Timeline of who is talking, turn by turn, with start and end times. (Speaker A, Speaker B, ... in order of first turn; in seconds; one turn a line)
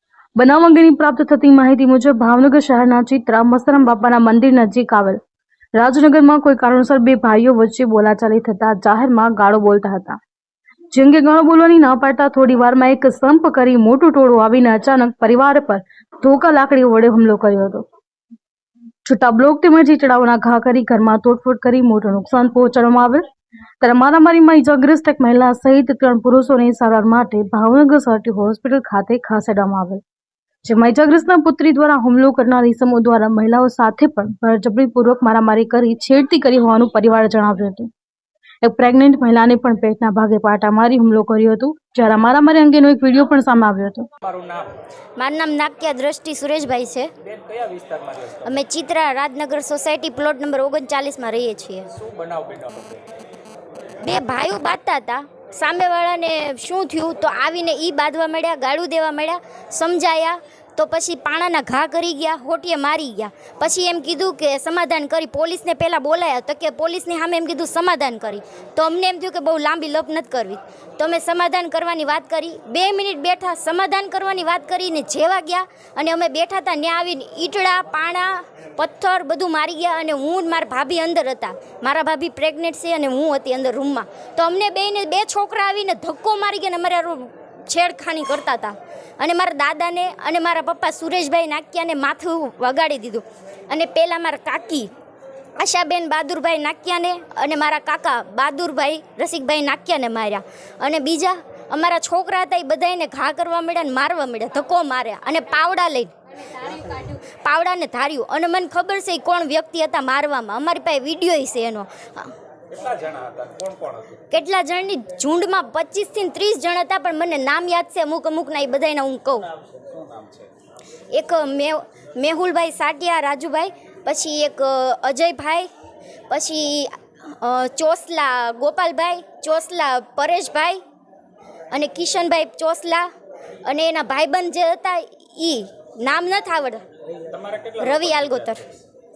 Speaker A: 0.4-5.2
Speaker A: 5.8-10.2
Speaker A: 10.9-17.9
Speaker A: 19.0-23.2
Speaker A: 23.8-30.0
Speaker A: 30.6-37.9
Speaker A: 38.6-44.1
Speaker B: 44.2-44.8
Speaker C: 45.2-47.1
Speaker B: 47.2-48.6
Speaker C: 48.4-51.9
Speaker B: 51.9-53.0
Speaker C: 54.0-94.9
Speaker C: 95.6-112.3
Speaker B: 112.7-114.2
Speaker C: 114.3-119.5
Speaker B: 119.7-120.5
Speaker C: 121.1-125.7
Speaker C: 126.3-130.8
Speaker C: 131.7-133.1
Speaker C: 133.7-136.9
Speaker B: 137.2-138.8
Speaker C: 137.8-138.6